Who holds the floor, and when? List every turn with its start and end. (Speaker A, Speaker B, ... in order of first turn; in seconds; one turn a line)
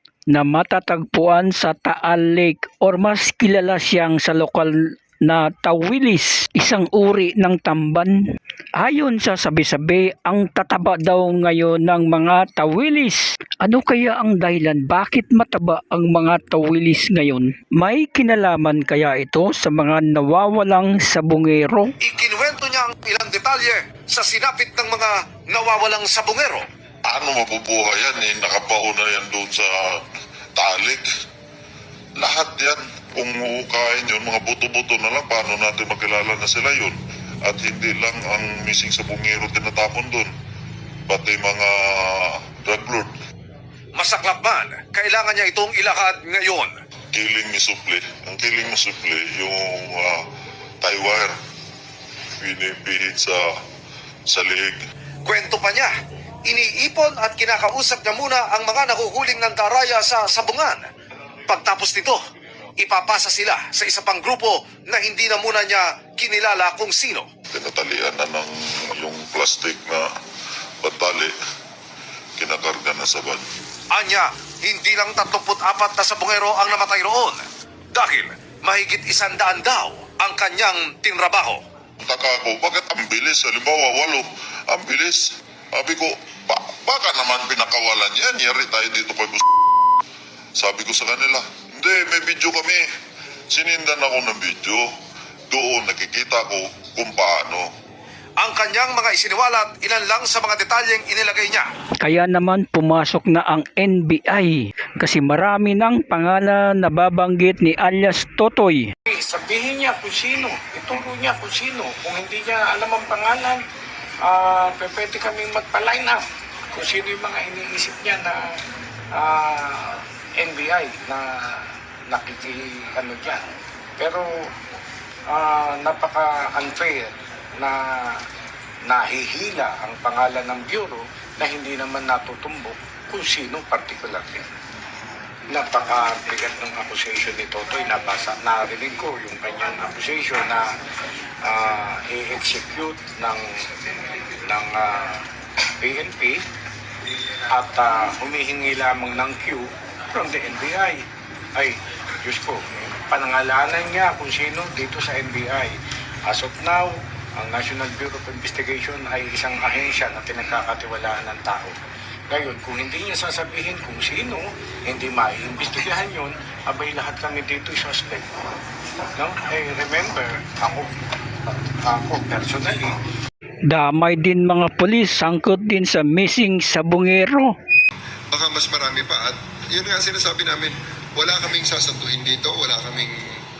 Speaker A: 0.3-8.1
Speaker A: 8.8-21.9
Speaker B: 22.0-26.7
Speaker C: 27.1-29.6
Speaker C: 30.6-31.0
Speaker C: 32.2-36.9
Speaker C: 37.5-40.2
Speaker C: 41.2-41.6
Speaker C: 42.7-43.1
Speaker B: 43.9-46.8
Speaker C: 47.2-49.5
Speaker C: 50.8-51.2
Speaker C: 52.5-53.3
Speaker C: 54.3-54.7
Speaker B: 55.2-55.9
Speaker B: 56.5-60.9
Speaker B: 61.5-62.2
Speaker B: 62.8-67.3
Speaker C: 67.6-68.5
Speaker C: 69.0-70.0
Speaker C: 70.8-71.3
Speaker C: 72.4-73.4
Speaker B: 73.9-81.6
Speaker C: 82.2-84.2
Speaker C: 84.8-85.2
Speaker C: 85.8-89.4
Speaker C: 90.6-92.8
Speaker C: 93.5-94.7
Speaker C: 95.5-97.6
Speaker B: 98.4-101.7
Speaker A: 102.0-108.9
Speaker D: 109.1-113.6
Speaker D: 114.2-118.6
Speaker D: 119.1-124.3
Speaker D: 125.3-128.2
Speaker D: 128.8-134.5
Speaker D: 135.5-140.7
Speaker D: 141.4-143.6
Speaker D: 144.4-145.2
Speaker D: 145.8-146.4
Speaker D: 147.5-151.0
Speaker D: 151.6-155.7
Speaker D: 156.2-161.8
Speaker D: 162.3-168.3
Speaker D: 169.2-170.9
Speaker D: 171.5-172.9
Speaker A: 173.7-177.5
Speaker E: 178.3-183.2